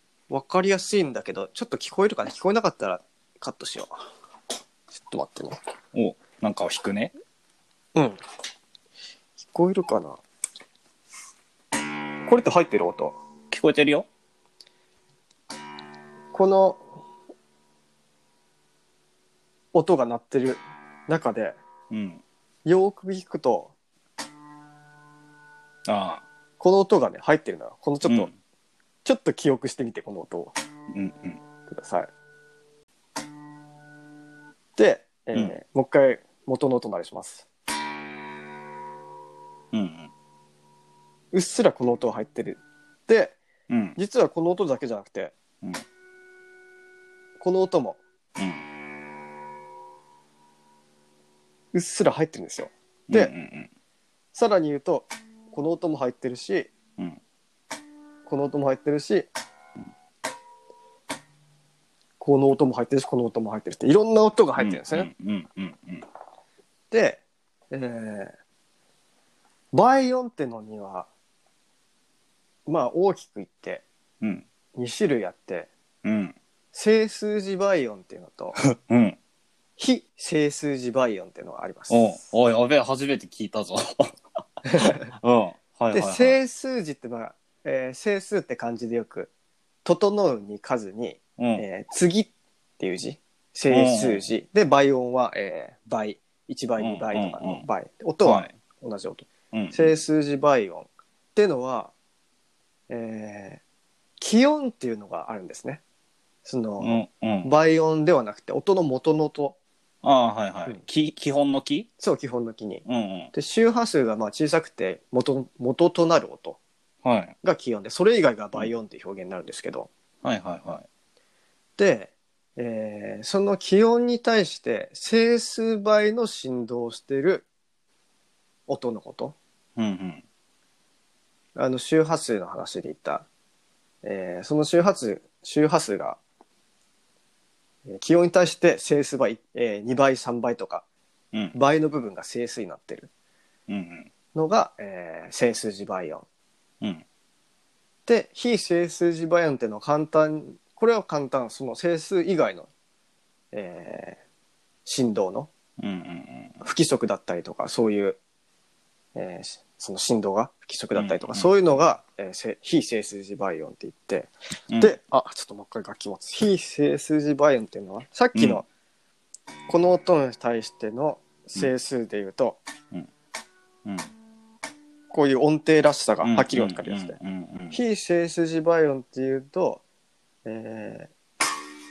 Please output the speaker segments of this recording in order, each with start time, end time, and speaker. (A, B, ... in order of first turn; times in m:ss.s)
0:00.3-0:03.9 A
0:05.0-0:05.6 A
0:05.9-0:07.1 B
0:09.4-0:10.2 A
0:12.2-0:13.2 A
0:13.5-0:14.1 B
0:16.3-0:16.8 A
0:19.7-0:21.6 A
0:21.9-0:22.2 B
0:22.6-0:23.7 A
0:25.8-0:26.2 B
0:26.6-0:28.3 A
0:28.0-0:28.3 B
0:29.0-0:30.5 A
0:30.9-0:31.4 B
0:31.7-0:32.1 A
0:34.8-0:37.5 A
0:39.7-0:40.1 B
0:41.3-0:43.4 A
0:43.7-0:44.0 B
0:44.0-0:45.3 A
0:47.4-0:48.0 A
0:48.4-0:48.6 B
0:51.7-0:53.3 A
0:53.1-0:53.7 B
0:54.3-0:56.7 A
0:58.2-0:59.3 A
1:02.2-1:05.1 A
1:04.6-1:06.0 B
1:06.9-1:08.3 A
1:09.7-1:11.1 A
1:12.6-1:13.8 A
1:14.7-1:15.7 A
1:16.0-1:16.4 B
1:16.7-1:18.6 A
1:18.6-1:19.2 B
1:19.8-1:22.2 A
1:21.9-1:24.1 B
1:24.7-1:25.1 A
1:24.7-1:26.4 B
1:25.9-1:29.3 A
1:29.8-1:41.9 A
1:31.4-1:31.6 B
1:33.7-1:34.2 B
1:36.8-1:37.6 B
1:38.2-1:38.5 B
1:39.5-1:39.9 B
1:42.9-1:43.6 A
1:44.2-1:45.8 A
1:46.4-1:49.6 A
1:46.8-1:47.5 B
1:50.0-1:51.9 B
1:52.0-1:56.6 A
1:52.8-1:53.3 B
1:57.0-1:57.4 B
1:57.4-1:59.9 A
2:00.2-2:00.8 B
2:01.8-2:07.5 A
2:08.7-2:09.4 A
2:09.8-2:10.2 B
2:11.6-2:13.3 A
2:14.0-2:16.2 A
2:17.9-2:20.8 A
2:21.5-2:23.1 A
2:23.7-2:24.1 B
2:24.3-2:26.2 A
2:28.1-2:32.7 A
2:33.5-2:34.2 A
2:34.8-2:35.5 A
2:35.8-2:36.6 B
2:36.6-2:38.2 A
2:39.1-2:48.6 A
2:40.9-2:41.5 B
2:48.3-2:48.6 B
2:49.7-2:52.6 A
2:53.8-2:54.1 B
2:55.1-2:57.2 A
2:56.2-2:57.8 B
2:57.7-2:59.8 A
3:00.4-3:01.1 A